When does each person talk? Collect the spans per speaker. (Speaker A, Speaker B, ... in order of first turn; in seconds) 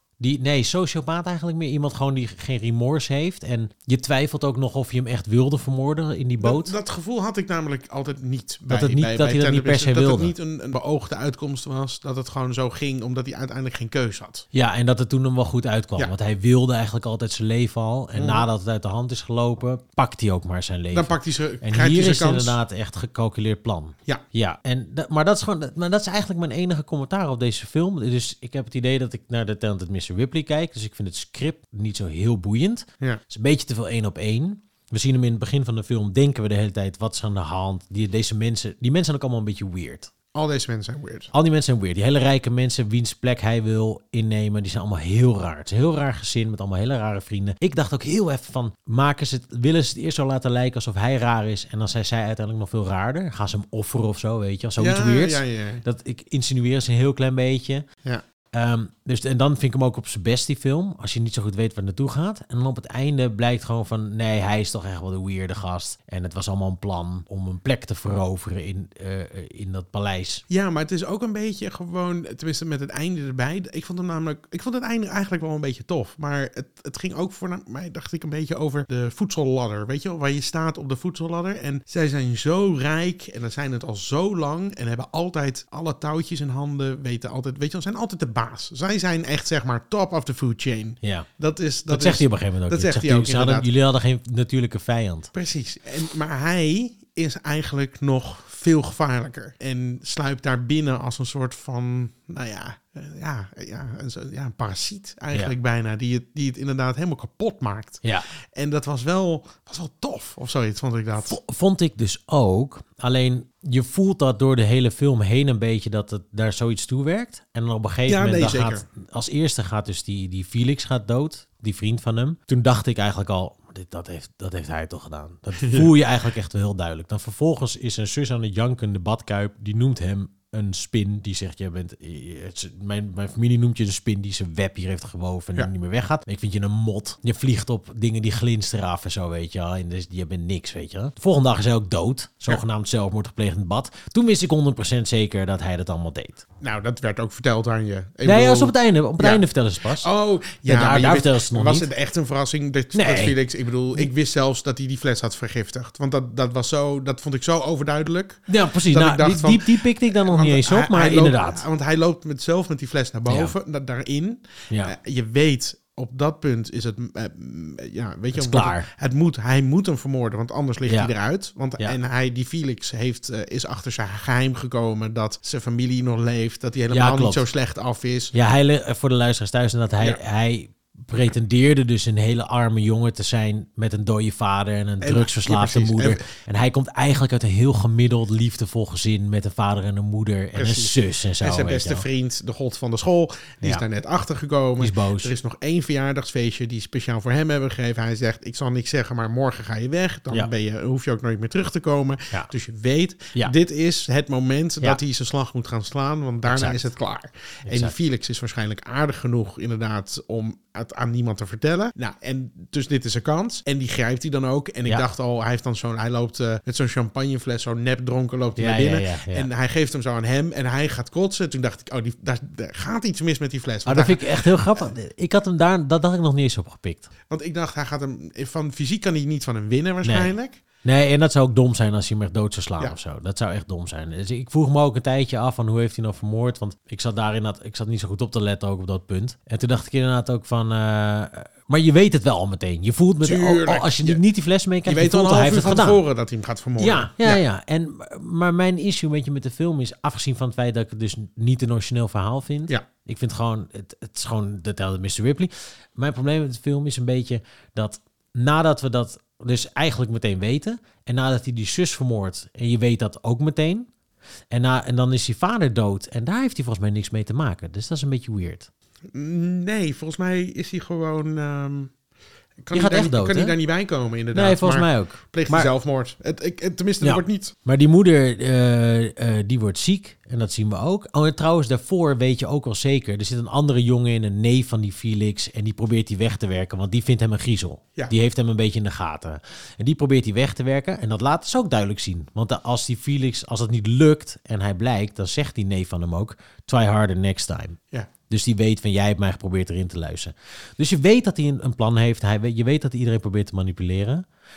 Speaker A: 0.2-6.8, 8.7-10.3, 14.5-40.1, 41.3-57.9, 58.5-70.4, 91.0-91.3, 91.9-95.3, 108.0-108.3, 111.2-146.4, 148.2-150.1, 150.7-151.9, 152.9-153.4, 158.5-161.6, 163.3-163.5, 168.3-168.9, 170.9-171.1, 176.9-177.5, 178.3-192.0, 194.8-195.3, 206.5-206.8, 207.7-207.9, 218.6-219.5, 223.9-227.1, 230.0-246.0, 246.8-263.9, 264.5-268.7, 272.7-273.6, 274.3-275.7, 277.0-297.8, 298.3-304.2
Speaker B: 6.4-14.5, 18.1-18.5, 20.9-22.6, 40.3-41.3, 54.8-55.8, 70.5-93.7, 95.3-108.0, 108.5-111.4, 118.1-118.8, 125.6-125.9, 146.6-149.4, 149.9-178.3, 185.0-186.3, 190.6-224.9, 227.3-230.6, 243.2-244.2, 244.9-247.4, 269.1-271.9, 272.6-277.5